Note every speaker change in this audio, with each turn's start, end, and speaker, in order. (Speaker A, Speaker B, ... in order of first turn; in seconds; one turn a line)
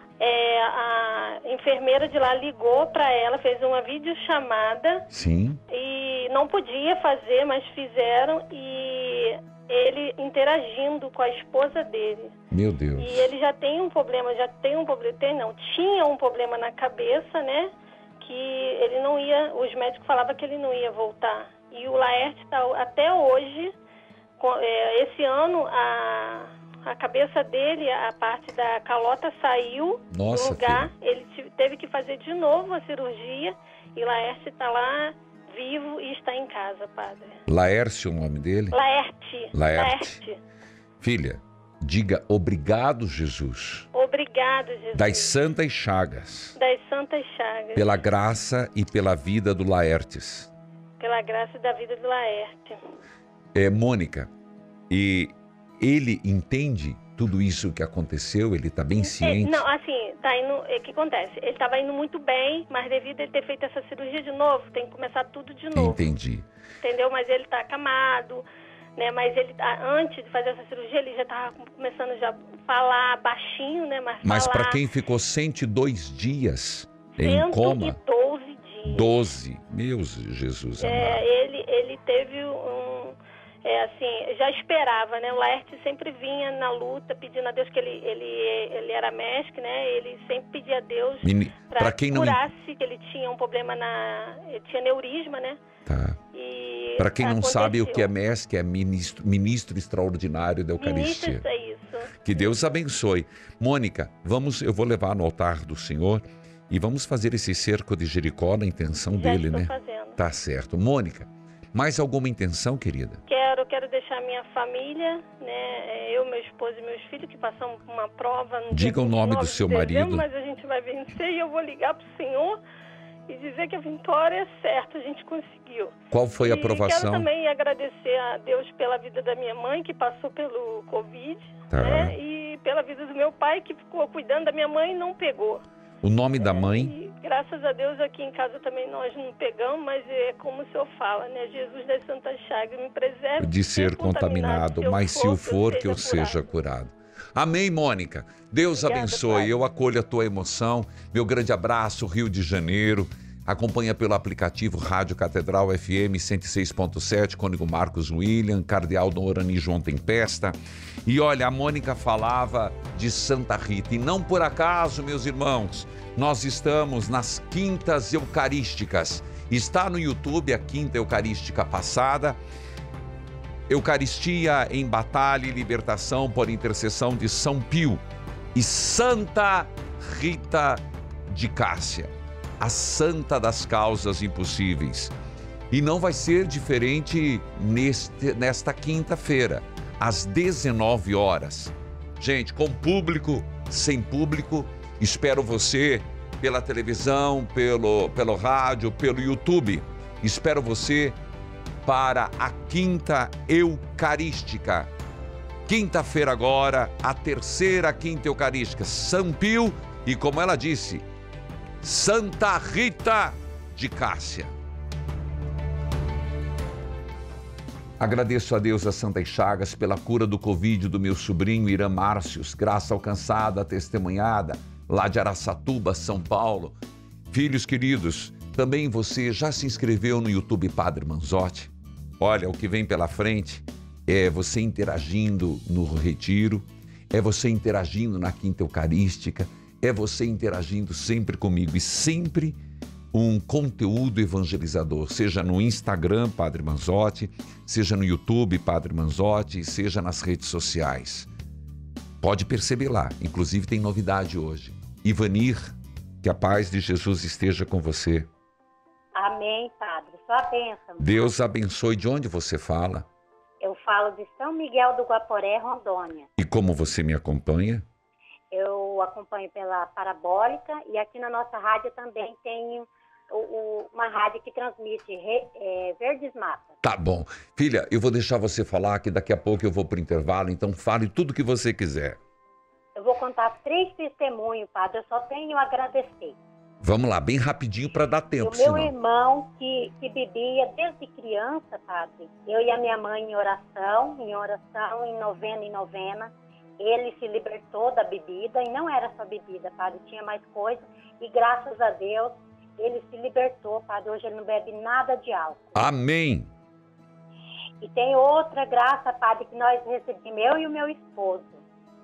Speaker A: 0.2-5.0
Speaker B: 5.1-5.6
Speaker A: 5.7-12.3
Speaker B: 12.5-13.2
Speaker A: 13.0-23.7
Speaker A: 24.4-37.4
Speaker B: 30.1-30.9
Speaker B: 37.5-38.8
Speaker A: 38.7-40.4
Speaker B: 39.5-40.2
Speaker B: 41.0-43.9
Speaker A: 43.9-45.4
Speaker B: 44.9-46.6
Speaker A: 46.6-48.0
Speaker B: 47.7-50.5
Speaker A: 51.0-52.8
Speaker B: 53.5-54.3
Speaker B: 54.9-59.6
Speaker A: 59.0-66.0
Speaker B: 65.7-66.5
Speaker A: 66.8-68.4
Speaker A: 69.0-74.8
Speaker B: 74.2-78.0
Speaker A: 77.2-79.2
Speaker B: 78.9-81.2
Speaker A: 80.8-95.6
Speaker B: 91.2-92.4
Speaker B: 95.9-96.2
Speaker A: 96.3-98.1
Speaker B: 97.0-101.4
Speaker A: 100.8-102.5
Speaker B: 102.2-113.2
Speaker A: 109.1-110.2
Speaker A: 113.3-122.6
Speaker B: 118.7-120.3
Speaker A: 123.3-135.6
Speaker B: 126.1-127.3
Speaker B: 131.7-132.1
Speaker B: 136.0-136.9
Speaker A: 136.4-146.4
Speaker B: 143.4-172.4
Speaker A: 148.8-149.6
Speaker B: 173.7-178.0
Speaker B: 178.5-185.1
Speaker B: 185.7-201.2
Speaker B: 201.8-204.9
Speaker B: 205.7-211.1
Speaker B: 211.8-214.5
Speaker B: 218.0-226.8
Speaker B: 227.3-242.6
Speaker B: 243.1-251.3
Speaker B: 252.2-258.3
Speaker C: 259.1-261.3
Speaker B: 261.0-263.1
Speaker C: 263.6-266.3
Speaker B: 266.4-267.9
Speaker C: 268.5-276.8
Speaker B: 276.8-282.2
Speaker C: 283.0-286.4
Speaker B: 286.8-288.9
Speaker C: 288.4-305.8
Speaker B: 305.8-306.5
Speaker C: 307.8-311.6